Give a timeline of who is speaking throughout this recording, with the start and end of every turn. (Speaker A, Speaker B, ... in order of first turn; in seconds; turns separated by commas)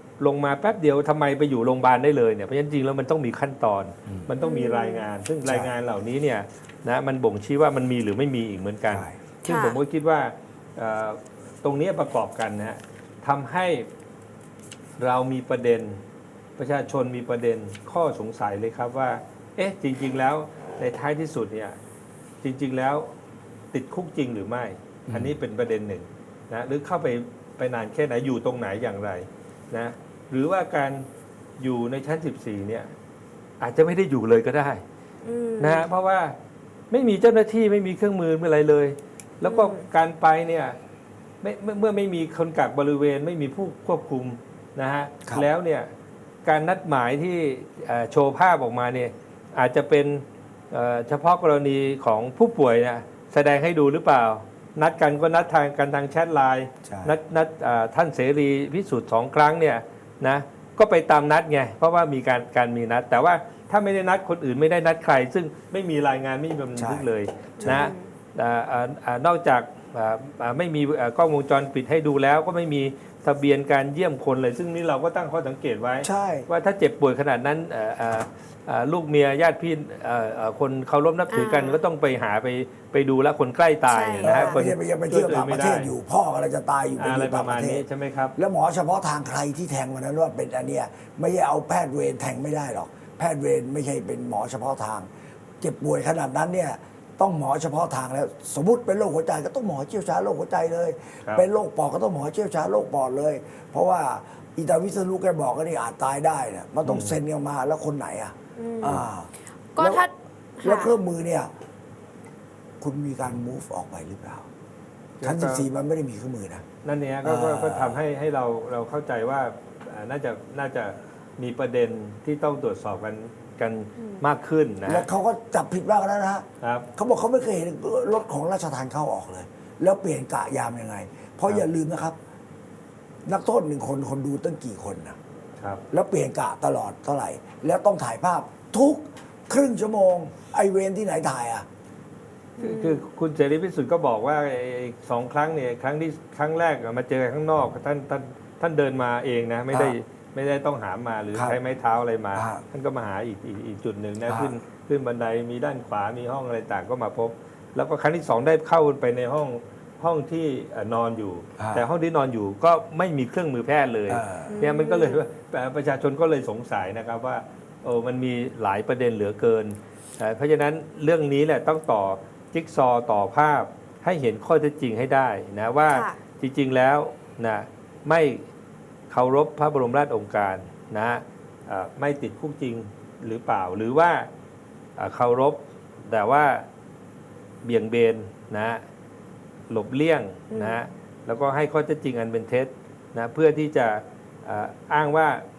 Speaker A: 0.2-13.9, Speaker B: 4.4-5.1, Speaker C: 5.4-5.7, Speaker C: 8.9-9.2, Speaker B: 9.4-9.8, Speaker A: 15.0-16.0, Speaker A: 16.6-21.8, Speaker A: 22.4-23.1, Speaker A: 23.7-31.1, Speaker C: 25.1-25.3, Speaker A: 31.6-32.9, Speaker A: 33.6-34.8, Speaker B: 35.2-35.9, Speaker A: 35.6-36.4, Speaker A: 36.9-40.8, Speaker B: 39.4-39.9, Speaker A: 41.4-45.9, Speaker A: 46.4-85.9, Speaker C: 56.8-57.1, Speaker C: 66.8-67.1, Speaker B: 67.6-68.1, Speaker C: 67.6-67.9, Speaker C: 76.0-76.5, Speaker B: 81.3-81.8, Speaker B: 83.8-84.6, Speaker C: 84.2-87.8, Speaker A: 87.0-88.3, Speaker C: 88.3-95.1, Speaker C: 95.6-110.0, Speaker A: 106.8-107.2, Speaker B: 108.6-109.0, Speaker B: 109.7-111.0, Speaker C: 110.6-111.5, Speaker C: 112.8-114.5, Speaker A: 115.2-115.7, Speaker C: 115.2-116.6, Speaker A: 116.8-125.1, Speaker C: 117.2-118.0, Speaker B: 124.0-124.2, Speaker C: 124.9-132.2, Speaker A: 126.6-126.9, Speaker C: 133.2-135.2, Speaker C: 135.9-141.7, Speaker B: 142.6-143.0, Speaker A: 142.6-178.4, Speaker C: 152.3-152.6, Speaker C: 154.3-154.5, Speaker C: 161.6-161.8, Speaker C: 164.1-164.5, Speaker B: 164.4-165.2, Speaker B: 175.9-176.2, Speaker A: 179.1-184.3, Speaker A: 185.0-186.6, Speaker A: 187.6-188.8, Speaker A: 189.7-195.4, Speaker B: 190.5-190.8